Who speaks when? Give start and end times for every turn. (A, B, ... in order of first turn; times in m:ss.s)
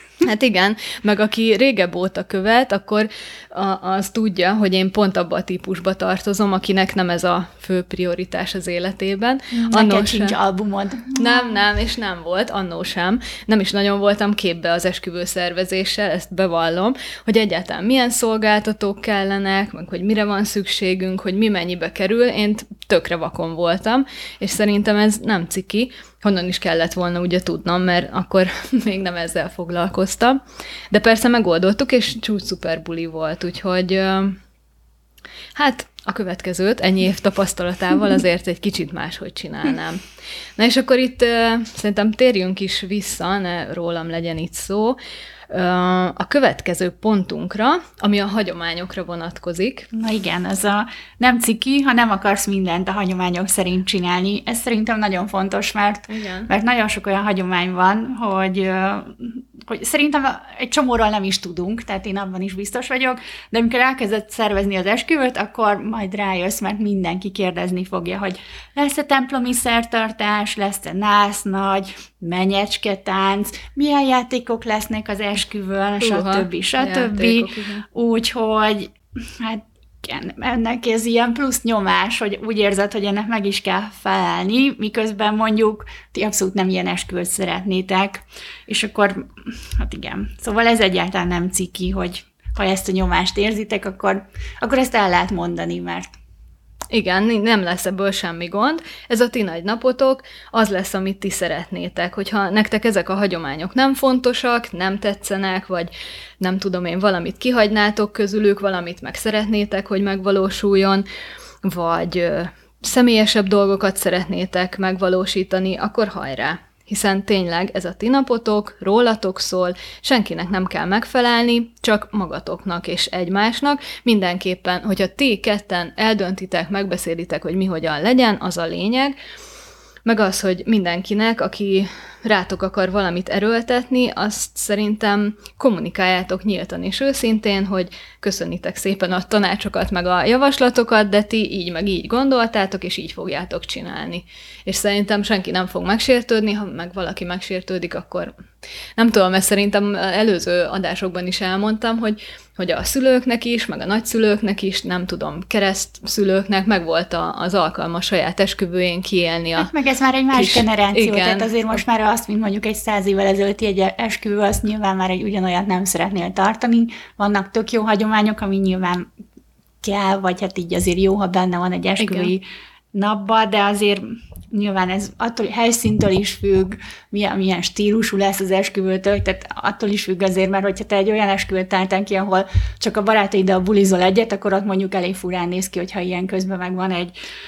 0:00.2-0:10.4 A
0:09.6-0:11.6 B
0:11.2-0:34.4 A
0:35.6-0:40.0 A
0:40.6-0:45.0 A
0:45.5-0:49.9 A
0:49.9-1:36.2 B
0:56.1-0:56.5 A
1:16.0-1:17.8 A
1:36.9-1:51.0 A
1:51.6-2:09.2 A
2:10.0-2:28.3 A
2:29.0-2:39.7 A
2:39.6-2:49.1 B
2:40.3-2:41.5 A
2:49.8-3:07.1 B
2:52.0-2:52.3 A